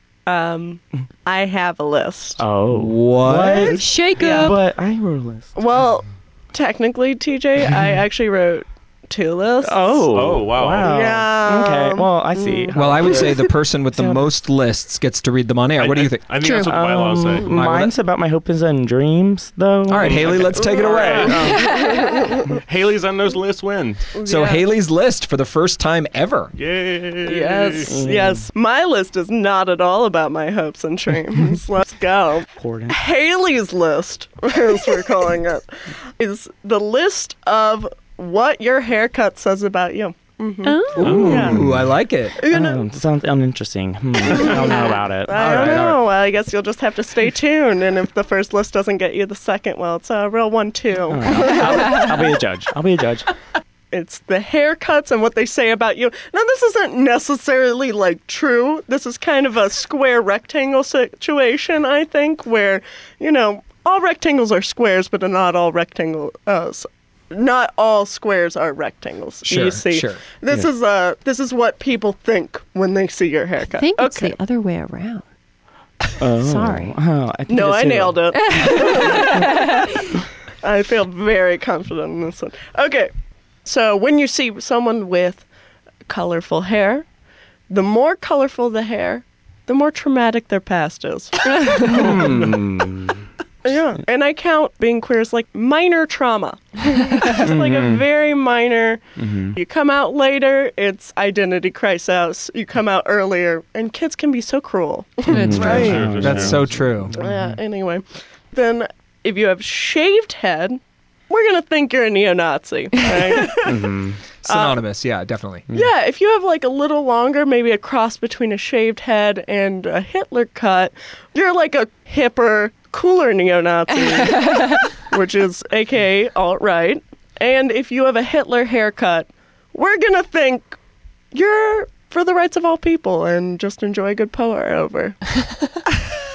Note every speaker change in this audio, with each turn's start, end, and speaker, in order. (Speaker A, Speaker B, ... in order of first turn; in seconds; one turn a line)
Speaker A: 0.2-2.4
Speaker B: 2.4-5.5
Speaker C: 2.7-3.8
Speaker D: 3.6-4.6
Speaker A: 4.2-4.5
Speaker A: 5.5-10.1
Speaker B: 9.6-14.3
Speaker E: 10.1-11.0
Speaker A: 10.8-13.4
Speaker C: 12.7-16.2
Speaker E: 15.8-17.9
Speaker D: 16.4-16.7
Speaker B: 16.5-20.3
Speaker C: 17.5-17.9
Speaker C: 19.9-21.4
Speaker E: 20.0-24.0
Speaker A: 20.6-22.5
Speaker D: 21.5-22.1
Speaker A: 24.1-24.6
Speaker C: 24.2-26.5
Speaker E: 26.6-27.9
Speaker A: 27.2-41.6
Speaker B: 27.8-28.5
Speaker B: 32.5-33.0
Speaker D: 40.6-41.5
Speaker C: 41.0-42.4
Speaker E: 41.0-41.5
Speaker B: 41.4-41.8
Speaker A: 42.4-42.8
Speaker B: 42.4-45.8
Speaker A: 44.3-52.1
Speaker C: 45.3-46.0
Speaker B: 51.1-53.3
Speaker A: 53.9-74.3
Speaker C: 69.4-70.2
Speaker D: 73.7-75.2
Speaker B: 76.2-78.2
Speaker D: 76.4-76.9
Speaker A: 77.5-79.7
Speaker D: 78.3-80.1
Speaker A: 80.6-83.1
Speaker A: 83.6-85.4
Speaker A: 86.1-87.1
Speaker A: 87.7-92.5
Speaker B: 91.8-93.2
Speaker A: 93.6-99.0
Speaker B: 97.3-98.0
Speaker B: 99.2-99.6
Speaker A: 99.5-106.2
Speaker B: 105.3-107.5
Speaker D: 105.3-106.2
Speaker E: 105.5-107.1
Speaker C: 106.2-107.1
Speaker A: 107.1-113.7
Speaker D: 113.0-113.4
Speaker B: 113.6-114.2
Speaker C: 114.4-115.7
Speaker A: 114.5-114.8
Speaker A: 115.7-130.8
Speaker D: 124.0-124.9
Speaker A: 131.3-135.2